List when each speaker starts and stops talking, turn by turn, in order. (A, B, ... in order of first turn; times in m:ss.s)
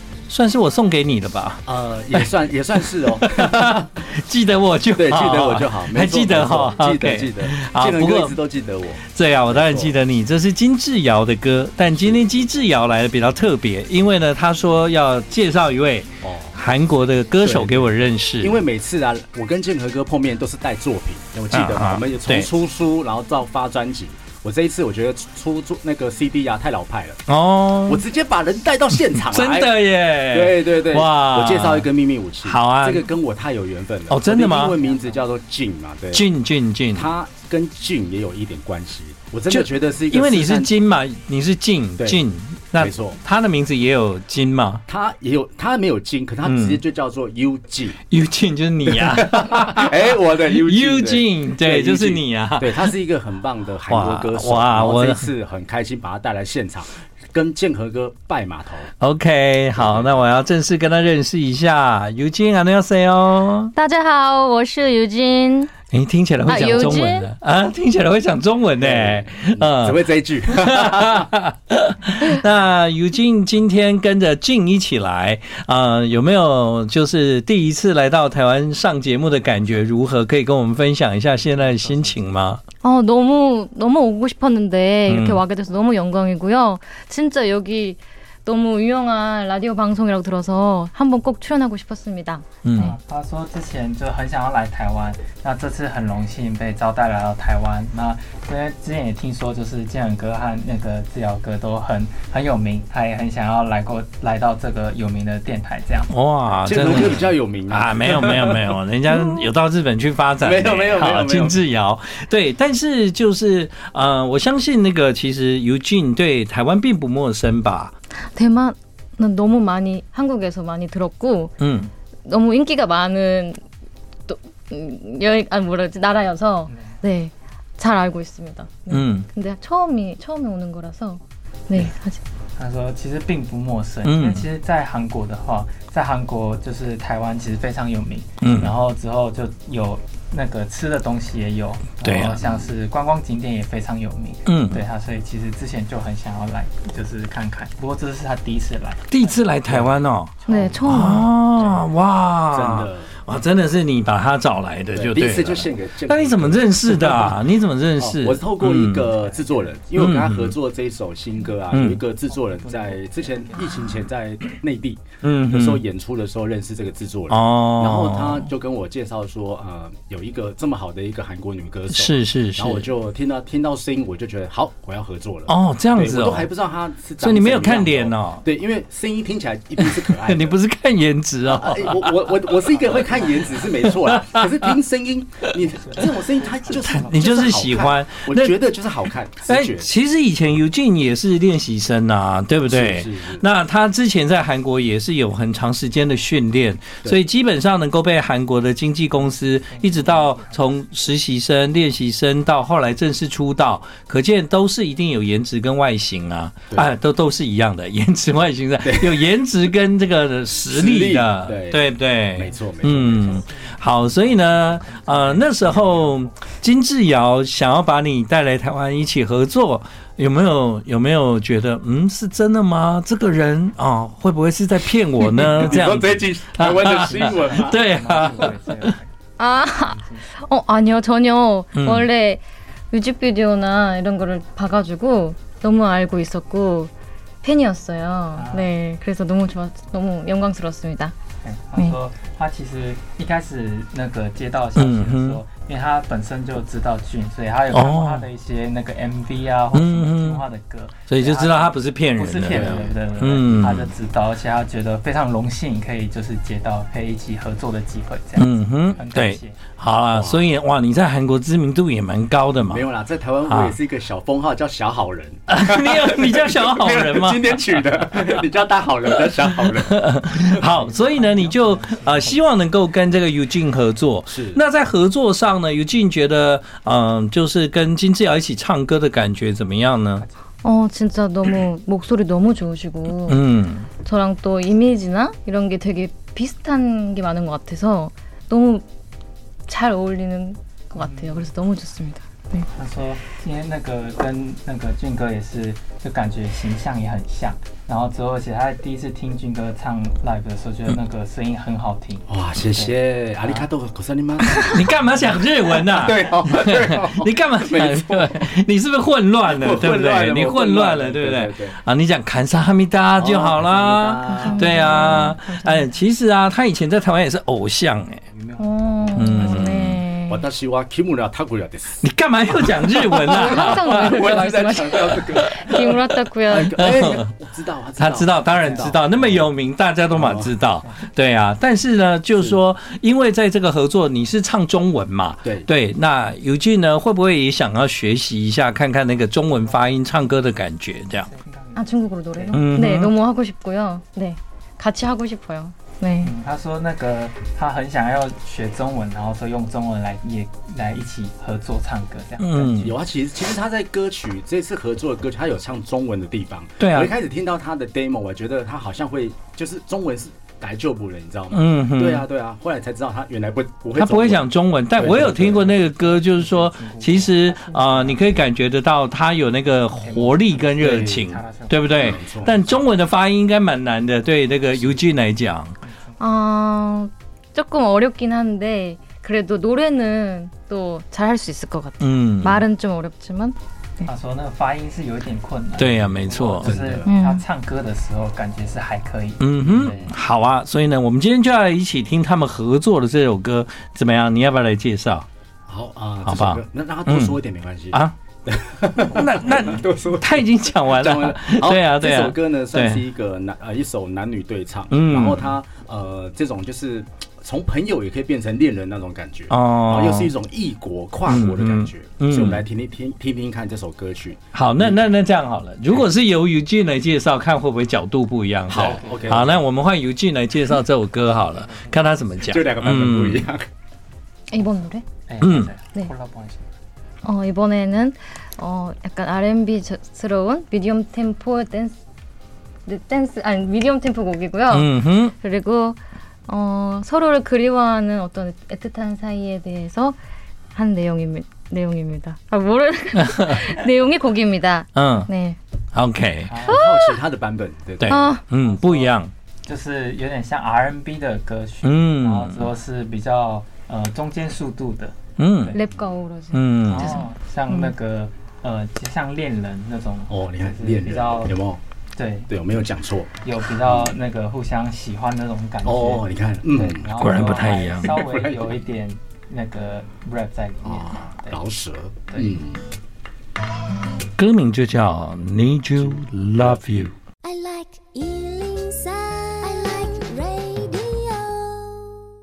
0:00.3-0:02.3 A
0:01.7-0:03.9 B
0:03.2-0:08.4 A
0:05.0-0:10.0 B
0:09.1-0:18.6 A
0:12.0-0:12.3 B
0:16.2-0:16.6 B
0:17.4-0:27.2 B
0:21.5-0:22.5 A
0:27.3-0:28.0 A
0:27.9-0:36.3 B
0:29.2-0:31.9 A
0:32.4-0:33.1 A
0:34.1-0:34.8 A
0:36.1-0:37.1 A
0:36.9-0:40.7 B
0:39.5-0:44.8 A
0:42.8-0:43.2 B
0:44.9-0:48.0 B
0:46.4-0:46.8 A
0:48.1-0:52.9 A
0:48.9-0:58.9 B
0:53.9-0:55.3 A
0:59.0-1:03.7 A
0:59.8-1:00.2 B
1:03.8-1:05.7 C
1:05.9-1:22.6 A
1:06.4-1:07.3 C
1:08.8-1:11.3 B
1:22.8-1:33.0 C
1:25.1-1:25.4 A
1:32.6-1:32.9 A
1:32.8-1:46.1 D
1:46.1-1:57.9 A
1:46.7-1:48.7 B
1:49.2-1:49.4 C
1:50.4-1:51.6 B
1:58.3-2:01.6 C
2:01.6-2:01.9 A
2:02.3-2:03.6 C
2:04.3-2:12.2 C
2:06.7-2:07.0 D
2:08.9-2:09.3 A
2:12.6-2:31.8 D
2:14.0-2:14.4 A
2:18.4-2:18.7 A
2:22.0-2:22.4 A
2:24.5-2:24.8 A
2:29.1-2:39.1 A
2:30.5-2:31.3 C
2:30.6-2:30.9 B
2:32.5-2:33.1 B
2:34.9-2:37.4 B
2:38.0-3:00.6 B
2:39.1-2:39.8 D
2:40.0-2:40.6 A
2:41.7-2:42.0 A
2:42.3-2:43.7 D
2:45.2-2:45.8 A
2:47.3-2:48.5 A
2:51.9-2:52.9 A
2:55.5-2:56.5 A
2:57.2-2:58.5 A
2:59.8-3:02.5 A
3:01.4-3:09.9 B
3:02.9-3:03.6 D
3:04.1-3:04.6 A
3:05.8-3:07.1 D
3:06.7-3:08.6 A
3:09.5-3:48.9 A
3:12.7-3:13.5 B
3:19.7-3:20.8 D
3:28.8-3:29.3 B
3:30.7-3:33.4 B
3:32.5-3:36.3 D
3:45.2-3:48.4 B
3:47.0-3:50.4 D
3:49.4-3:56.9 C
3:51.8-3:52.1 A
3:57.4-4:01.1 C
3:58.4-3:58.7 D
4:01.4-4:19.6 D
4:04.8-4:05.4 A
4:07.7-4:08.3 A
4:09.7-4:10.4 A
4:11.1-4:13.9 A
4:12.5-4:13.7 B
4:18.4-4:22.8 A
4:20.1-4:20.5 B
4:22.7-4:29.9 B
4:23.5-4:23.8 A
4:25.5-4:27.8 A
4:29.8-4:40.2 A
4:30.6-4:32.4 D
4:34.3-4:34.6 B
4:40.6-4:43.4 C
4:43.2-4:43.9 A
4:44.0-4:48.8 C
4:49.7-4:52.7 C
4:51.0-4:51.5 D
4:52.7-5:03.7 D
5:02.3-5:04.8 B
5:04.6-5:18.2 A
5:05.7-5:08.5 B
5:09.5-5:11.8 B
5:13.2-5:15.3 B
5:14.4-5:15.8 C
5:18.3-5:19.6 D
5:18.6-5:20.4 C
5:19.2-5:20.0 A
5:20.3-5:22.1 B
5:22.0-5:26.0 A
5:22.6-5:29.5 B
5:23.2-5:26.8 C
5:26.5-5:27.3 A
5:28.0-5:41.3 A
5:28.5-5:29.0 D
5:30.1-5:30.5 B
5:35.4-5:35.7 B
5:41.2-5:42.8 D
5:41.8-5:46.3 C
5:42.5-5:43.1 A
5:46.2-5:52.9 D
5:52.4-5:53.0 A
5:52.8-6:04.4 B
5:56.8-5:57.1 A
6:01.5-6:02.3 A
6:04.0-6:15.8 A
6:05.0-6:05.7 B
6:05.2-6:08.4 D
6:10.0-6:12.2 D
6:10.8-6:11.3 B
6:12.0-6:12.8 B
6:14.7-6:15.1 B
6:15.8-6:16.2 D
6:16.2-6:24.1 C
6:22.0-6:22.7 A
6:24.0-6:30.1 D
6:25.8-6:26.8 A
6:26.6-6:27.1 B
6:27.1-6:27.4 C
6:29.4-6:35.3 A
6:29.6-6:30.1 B
6:35.7-6:55.0 B
6:36.3-6:37.4 A
6:39.1-6:43.0 A
6:44.9-6:45.6 A
6:49.5-6:50.3 A
6:51.3-6:52.6 A
6:54.5-7:03.5 A
6:58.7-6:59.6 B
6:58.7-6:59.5 D
7:01.1-7:02.6 D
7:02.4-7:03.7 B
7:04.5-7:05.1 C
7:05.3-7:06.7 D
7:05.4-7:05.7 A
7:07.2-7:11.9 C
7:12.9-7:20.2 C
7:14.7-7:15.3 A
7:20.8-7:25.6 C
7:23.2-7:23.6 A
7:25.0-7:25.3 A
7:25.9-7:26.6 A
7:26.5-7:26.8 D
7:26.7-7:28.3 B
7:26.7-7:27.2 C
7:28.0-7:29.3 A
7:28.1-7:28.4 C
7:28.6-7:35.8 D
7:31.8-7:32.7 A
7:35.4-7:35.8 A
7:35.7-7:37.9 C
7:36.5-7:37.2 A
7:36.8-7:41.6 D
7:40.3-7:41.8 B
7:42.2-7:42.5 D
7:42.5-7:44.1 B
7:43.4-7:51.6 D
7:45.8-7:47.4 B
7:47.2-7:48.2 A
7:48.0-7:48.7 B
7:50.8-7:52.8 B
7:52.3-7:52.6 D
7:54.4-7:57.2 A
7:56.0-7:57.1 B
7:57.4-8:02.2 E